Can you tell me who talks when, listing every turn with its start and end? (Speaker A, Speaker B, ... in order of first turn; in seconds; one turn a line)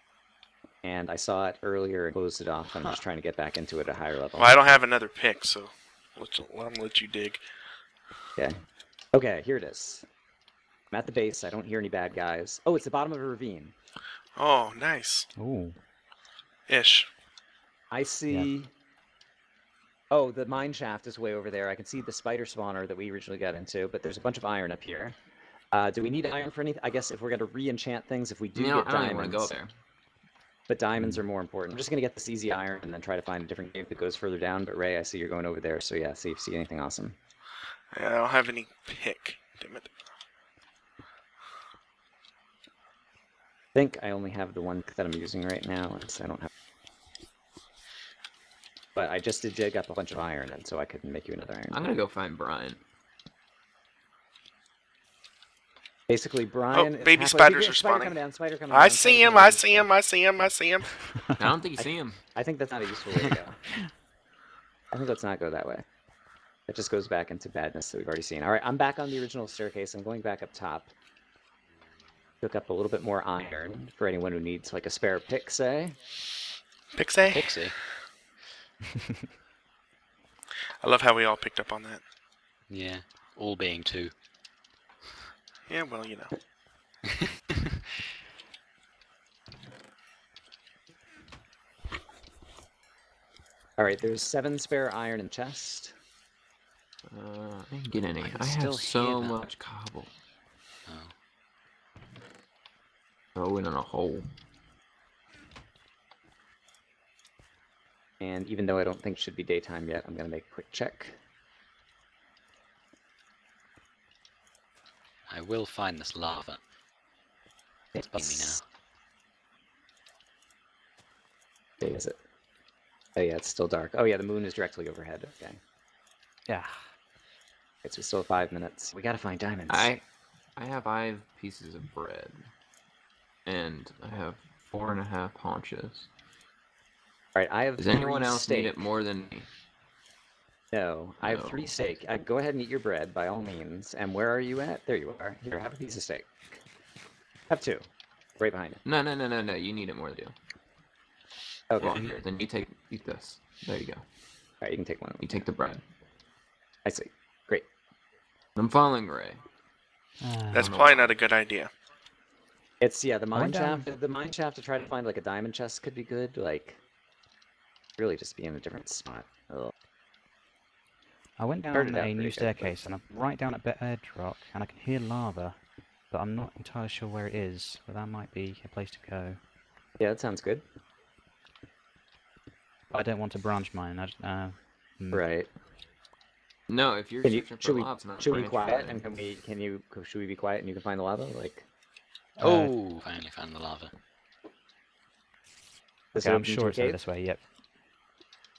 Speaker A: 0.8-4.5
Speaker B: 4.3-7.4
Speaker A: 9.1-10.0
Speaker A: 10.9-13.7
Speaker B: 14.3-15.2
Speaker C: 15.3-15.8
Speaker B: 16.7-17.1
Speaker A: 17.9-18.7
Speaker A: 20.1-25.2
Speaker A: 25.7-29.6
Speaker D: 28.5-29.7
Speaker A: 30.7-37.1
Speaker B: 37.9-39.9
Speaker A: 43.7-46.5
Speaker A: 49.0-51.8
Speaker D: 51.7-52.8
Speaker A: 56.1-59.9
Speaker B: 56.7-60.9
Speaker D: 61.4-62.2
Speaker A: 61.8-63.6
Speaker A: 64.9-65.8
Speaker A: 66.7-70.9
Speaker A: 72.4-76.0
Speaker B: 76.9-77.7
Speaker E: 77.2-77.8
Speaker B: 80.8-82.0
Speaker E: 82.7-84.1
Speaker B: 85.7-86.3
Speaker A: 93.8-95.9
Speaker D: 97.0-100.1
Speaker A: 98.3-99.2
Speaker E: 100.8-101.1
Speaker D: 103.3-104.3
Speaker A: 108.2-111.2
Speaker E: 115.3-116.6
Speaker A: 117.9-118.6
Speaker E: 118.0-118.6
Speaker A: 121.8-122.2
Speaker A: 123.1-125.6
Speaker C: 126.5-126.8
Speaker A: 127.8-129.9
Speaker D: 129.7-130.0
Speaker D: 130.6-132.5
Speaker D: 133.4-136.1
Speaker A: 137.3-138.8
Speaker D: 137.8-139.5
Speaker A: 140.7-146.6
Speaker D: 141.2-141.7
Speaker A: 147.5-147.8
Speaker A: 148.4-148.8
Speaker D: 148.8-150.3
Speaker A: 151.7-152.1
Speaker D: 151.8-154.0
Speaker A: 154.6-155.4
Speaker D: 155.2-155.8
Speaker A: 156.8-157.7
Speaker D: 158.6-159.4
Speaker C: 160.2-160.7
Speaker B: 160.5-161.7
Speaker D: 160.6-161.1
Speaker A: 162.8-166.8
Speaker C: 163.3-163.9
Speaker A: 168.0-169.7
Speaker C: 171.4-179.4
Speaker A: 171.7-172.8
Speaker A: 180.0-180.6
Speaker C: 182.9-185.2
Speaker A: 185.1-185.5
Speaker D: 186.7-189.1
Speaker A: 187.2-191.6
Speaker C: 192.4-192.7
Speaker E: 192.4-193.9
Speaker A: 196.1-197.0
Speaker C: 196.2-197.4